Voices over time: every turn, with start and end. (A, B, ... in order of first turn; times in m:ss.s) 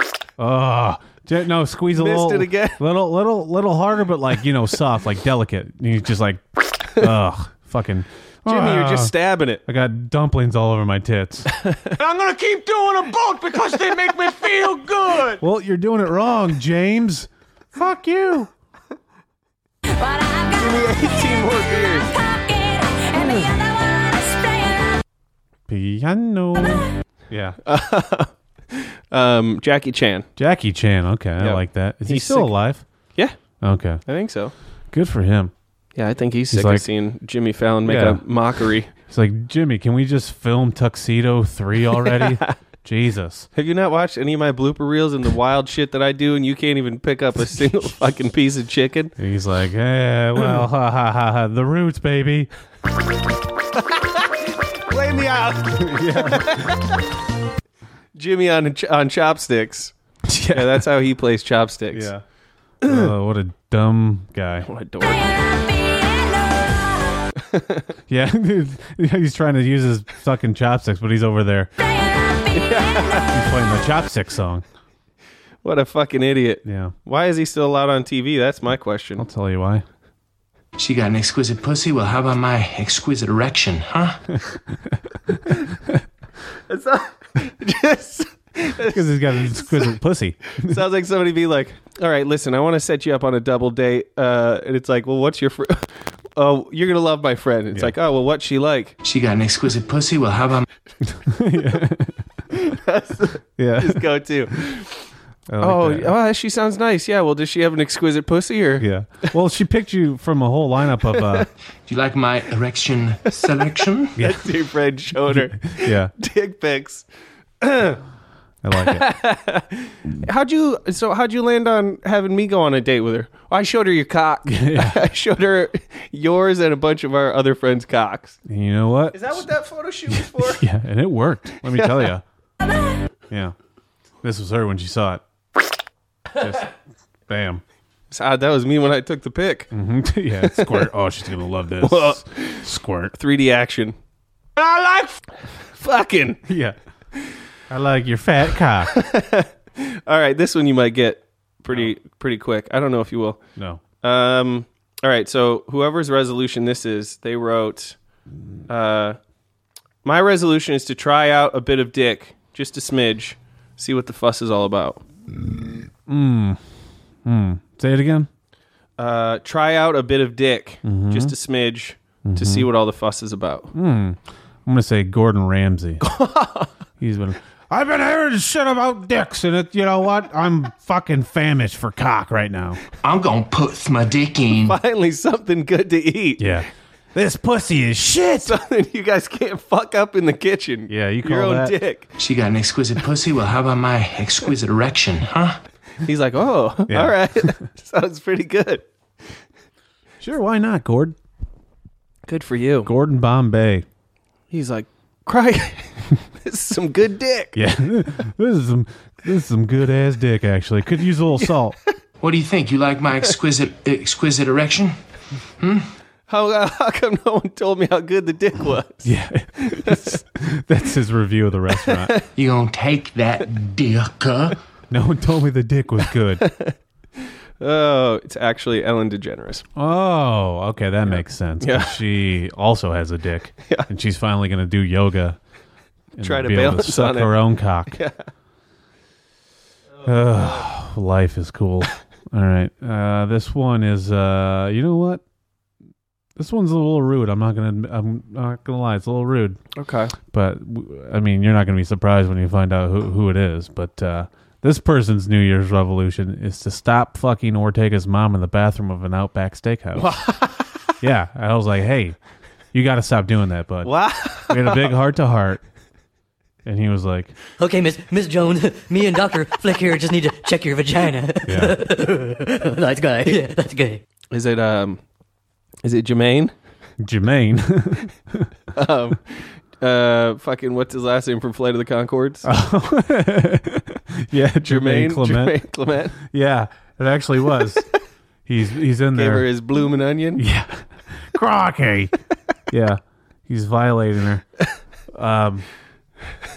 0:00.4-0:09.1 A
0:01.9-0:02.8 B
0:08.4-0:09.6 B
0:09.6-0:11.5 A
0:12.0-0:15.4 C
0:15.4-0:18.5 A
0:20.5-0:22.2 B
0:23.1-0:23.5 B
0:25.7-0:27.6 A
0:27.6-0:30.3 B
0:30.4-0:32.8 A
0:31.4-0:32.5 B
0:33.6-0:34.0 A
0:34.0-0:34.5 B
0:34.9-0:35.5 A
0:36.0-0:38.9 B
0:36.5-0:36.9 A
0:37.9-0:38.2 A
0:39.0-0:43.5 A
0:42.0-0:42.5 B
0:43.5-0:49.1 B
0:49.2-0:52.5 A
0:53.9-0:56.8 B
0:55.7-0:56.7 A
0:58.1-0:59.9 B
1:00.3-1:00.9 A
1:00.5-1:02.1 B
1:01.9-1:02.2 A
1:02.8-1:04.7 A
1:04.6-1:05.3 B
1:07.4-1:07.9 B
1:08.1-1:11.7 A
1:12.5-1:13.3 B
1:13.3-1:14.6 A
1:15.6-1:19.3 B
1:16.6-1:16.9 A
1:19.2-1:19.8 A
1:20.8-1:24.2 D
1:26.7-1:29.9 B
1:28.9-1:30.8 A
1:30.6-1:38.9 B
1:39.0-1:40.6 D
1:41.1-1:42.2 A
1:42.6-1:44.9 B
1:43.6-1:44.1 A
1:45.5-1:46.1 A
1:45.6-1:48.9 B
1:48.8-1:51.5 A
1:51.9-1:54.1 D
1:54.2-1:57.0 B
1:54.2-1:54.4 A
1:55.3-1:56.1 A
1:57.6-1:58.0 B
1:58.6-1:59.1 A
1:58.8-2:08.4 B
2:04.4-2:05.0 A
2:08.4-2:09.5 A
2:09.1-2:10.6 B
2:10.1-2:12.2 A
2:13.3-2:13.5 A
2:14.2-2:15.2 A
2:16.4-2:16.7 A
2:17.3-2:17.6 A
2:18.1-2:19.7 B
2:19.7-2:23.1 A
2:20.4-2:20.9 B
2:21.8-2:24.0 B
2:24.6-2:25.1 B
2:25.7-2:26.4 B
2:26.5-2:26.8 A
2:27.7-2:28.9 A
2:28.9-2:33.4 B
2:33.6-2:33.8 A
2:34.0-2:38.0 B
2:38.7-2:39.2 B
2:40.0-2:45.0 B
2:46.1-2:46.6 A
2:47.2-2:48.3 A
2:49.0-2:53.7 B
2:50.8-2:51.3 A
2:52.2-2:52.7 A
2:53.7-2:56.0 A
2:56.0-2:56.7 B
2:57.0-3:02.8 A
3:03.0-3:04.8 D
3:04.6-3:06.6 B
3:06.4-3:08.6 A
3:08.4-3:12.0 B
3:10.9-3:11.8 A
3:12.2-3:15.6 D
3:16.0-3:18.8 B
3:16.9-3:17.6 A
3:20.2-3:21.2 A
3:22.3-3:22.9 B
3:22.8-3:23.8 A
3:24.5-3:27.6 B
3:27.5-3:31.8 A
3:32.2-3:35.0 D
3:35.6-3:35.9 D
3:36.3-3:40.2 B
3:39.0-3:42.1 A
3:41.9-3:42.2 B
3:42.3-3:44.6 D
3:44.9-3:46.4 A
3:46.4-3:46.7 B
3:47.6-3:49.6 B
3:49.8-3:55.4 A
3:51.1-3:51.9 B
3:56.2-3:58.0 A
3:56.2-3:58.1 B
4:00.0-4:05.2 A
4:06.4-4:09.6 A
4:09.8-4:10.1 B
4:10.3-4:20.2 A
4:19.9-4:20.9 B
4:21.0-4:22.2 A
4:22.7-4:25.6 A
4:23.8-4:24.9 B
4:26.6-4:27.3 A
4:27.6-4:34.0 E
4:31.5-4:31.7 A
4:34.3-4:35.0 B
4:35.8-4:36.5 B
4:37.0-4:38.5 A
4:38.7-4:42.5 B
4:42.4-4:45.6 A
4:44.6-4:46.2 B
4:46.2-4:47.9 A
4:48.4-4:49.5 A
4:49.1-4:50.4 B
4:50.4-4:52.1 A
4:52.7-4:54.4 A
4:55.1-4:55.6 A